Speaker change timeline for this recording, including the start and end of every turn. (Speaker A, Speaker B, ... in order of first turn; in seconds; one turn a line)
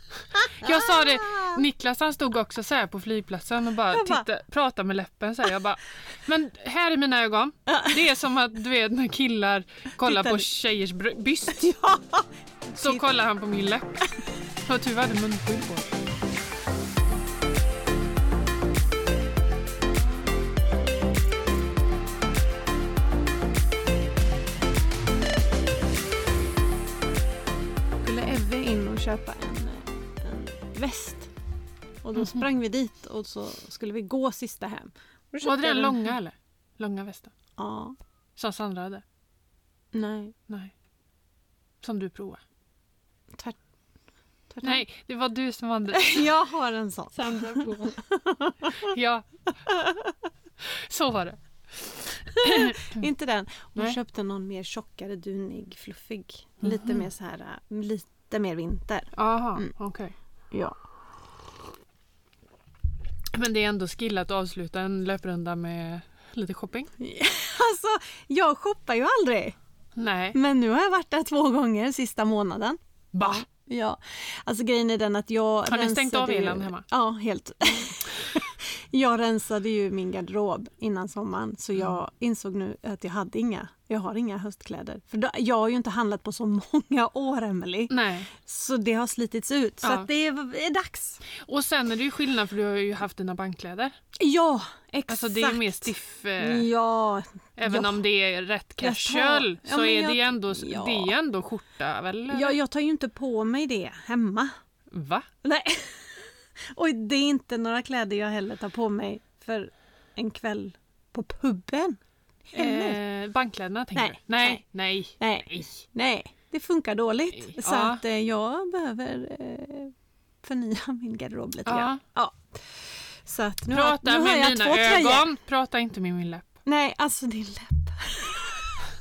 Speaker A: 0.3-1.6
Speaker B: 0.6-11.8
Speaker A: 3.9-4.3
Speaker A: 7.7-8.0
Speaker A: 10.0-10.4
Speaker A: 11.5-13.1
Speaker B: 12.8-14.1
Speaker B: 14.6-16.0
Speaker A: 28.0-31.3
Speaker A: 32.0-36.1
Speaker B: 32.2-32.4
Speaker B: 35.4-37.3
Speaker A: 37.6-38.0
Speaker B: 38.4-39.0
Speaker A: 39.9-40.4
Speaker B: 40.5-40.7
Speaker B: 41.8-42.4
Speaker A: 44.5-44.8
Speaker B: 44.6-46.3
Speaker A: 45.9-48.9
Speaker B: 47.1-48.0
Speaker B: 48.7-49.3
Speaker A: 49.7-50.1
Speaker B: 50.6-53.0
Speaker A: 52.4-59.7
Speaker B: 56.6-57.1
Speaker B: 59.1-60.1
Speaker B: 63.3-66.9
Speaker A: 67.0-69.6
Speaker B: 70.0-70.4
Speaker A: 70.3-91.2
Speaker B: 73.1-73.5
Speaker B: 75.7-76.8
Speaker B: 87.9-88.3
Speaker B: 89.8-90.1
Speaker B: 91.3-94.0
Speaker A: 94.2-98.0
Speaker B: 95.1-96.7
Speaker B: 97.6-102.6
Speaker A: 98.8-101.1
Speaker A: 102.3-104.5
Speaker B: 104.9-105.3
Speaker A: 105.4-113.0
Speaker B: 112.5-115.8
Speaker A: 113.9-114.6
Speaker A: 115.2-125.3
Speaker B: 117.3-118.0
Speaker B: 121.7-122.0
Speaker B: 123.7-126.5
Speaker A: 126.7-128.8